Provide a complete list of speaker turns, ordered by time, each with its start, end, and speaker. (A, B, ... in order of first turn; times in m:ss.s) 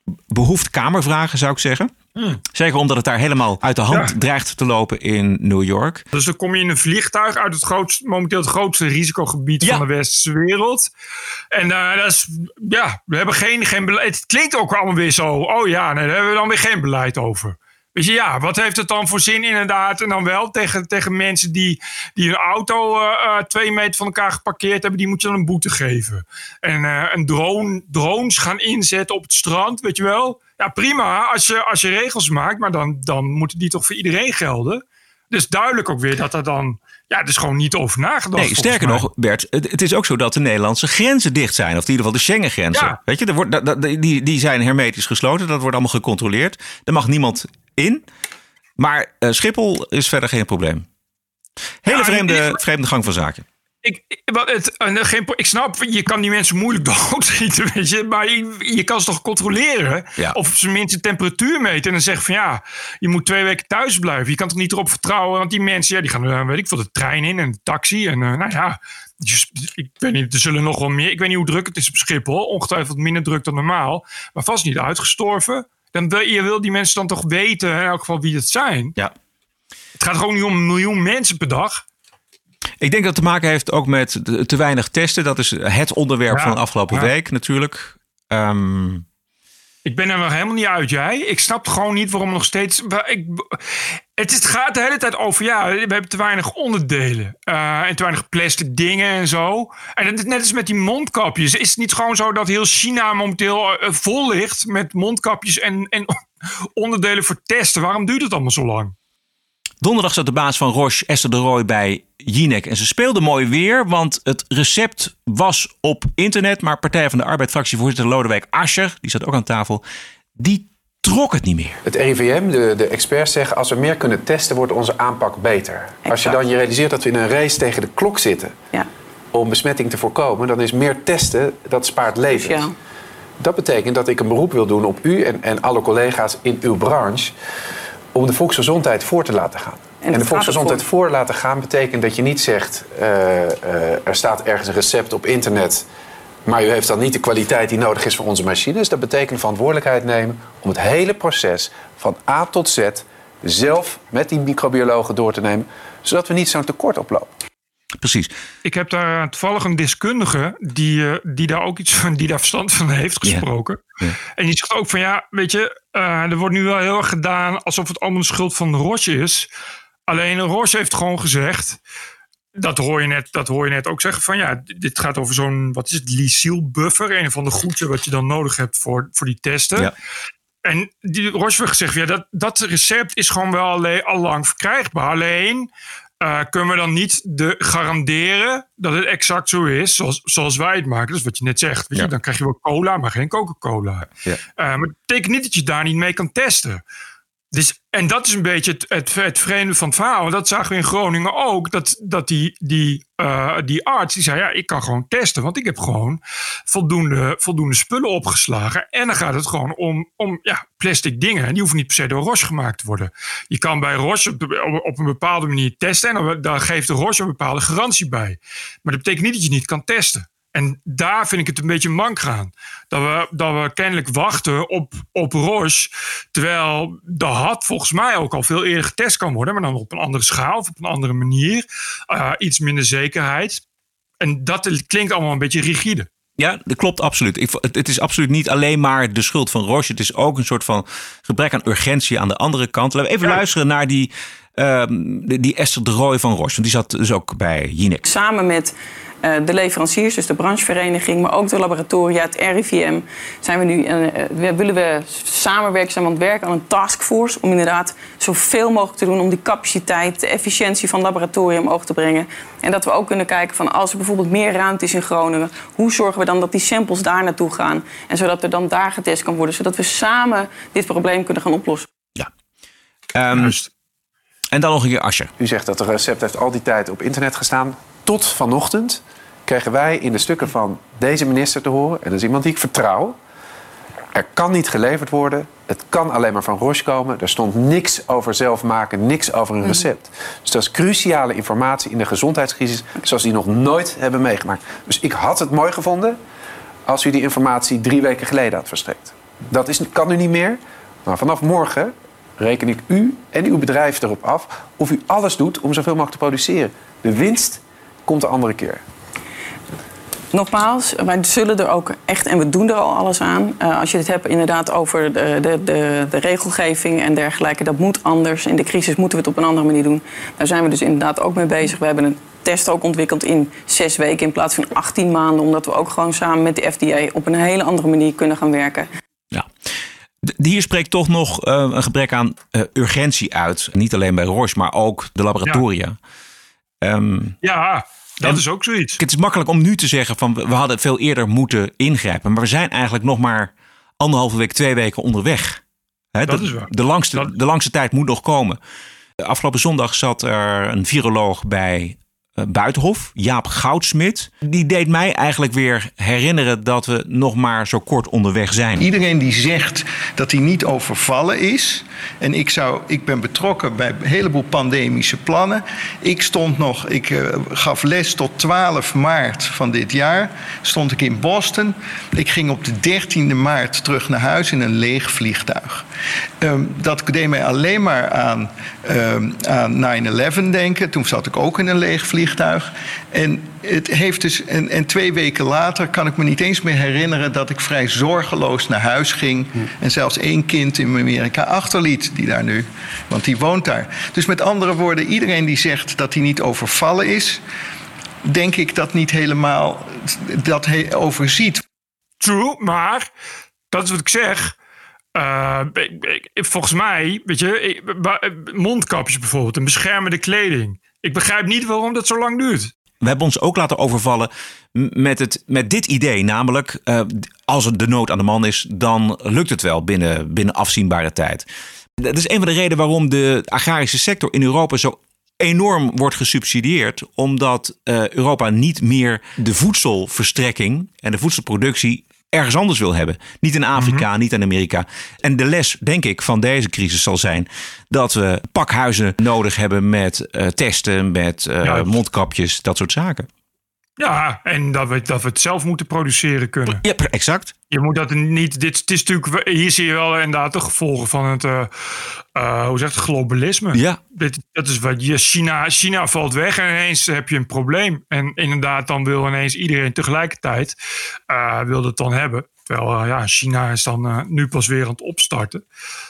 0:00.3-0:01.9 A
0:02.2-0:02.4 B
0:02.5-0:06.0 A
0:06.1-0:10.9 B
0:11.5-0:39.1 B
0:38.4-0:48.0 A
0:42.7-0:43.0 B
0:48.8-0:50.8 A
0:51.8-0:53.4 A
0:51.9-0:52.6 B
0:53.8-1:18.9 B
1:20.0-1:21.8 B
1:22.8-1:29.0 A
1:26.3-1:27.1 B
1:29.8-1:46.2 B
1:46.8-1:48.9 B
1:49.8-1:59.8 A
2:00.4-2:01.8 A
2:01.8-2:08.5 C
2:06.0-2:06.4 D
2:09.3-2:12.7 C
2:12.3-2:12.7 D
2:13.4-2:17.3 C
2:18.1-2:25.8 C
2:20.0-2:20.8 D
2:26.4-2:37.3 C
2:38.0-2:38.3 A
2:38.6-2:43.8 B
2:44.4-2:49.5 B
2:50.1-2:51.8 B
2:52.5-2:59.9 B
3:00.6-3:05.7 B
3:06.2-3:16.8 B
3:17.5-3:53.6 B
3:54.2-3:56.1 B
3:56.4-4:08.0 A
4:08.0-4:31.9 D
4:33.1-4:33.6 A
4:33.3-4:33.7 B
4:34.5-4:35.3 A
4:35.4-4:43.2 C
4:44.1-4:56.2 C
4:56.8-5:08.8 C
5:10.3-5:28.9 D
5:30.2-5:36.0 A
5:36.8-5:37.4 A
5:37.4-5:39.0 B
5:39.0-5:45.6 A
5:46.1-5:48.6 A
5:46.3-5:47.3 B
5:49.2-5:58.9 A
5:58.8-6:15.8 E
6:16.4-6:37.4 E
6:38.2-6:41.6 E
6:42.2-6:43.1 B
6:43.7-6:44.5 B
6:45.1-6:52.7 B
6:53.0-7:01.4 A
7:02.0-7:23.3 A
7:13.8-7:14.0 B
7:21.6-7:21.9 B
7:24.0-7:26.8 B
7:26.6-7:27.5 A
7:27.7-7:31.7 B
7:32.3-7:40.8 B
7:33.7-7:34.0 A
7:41.3-7:45.6 B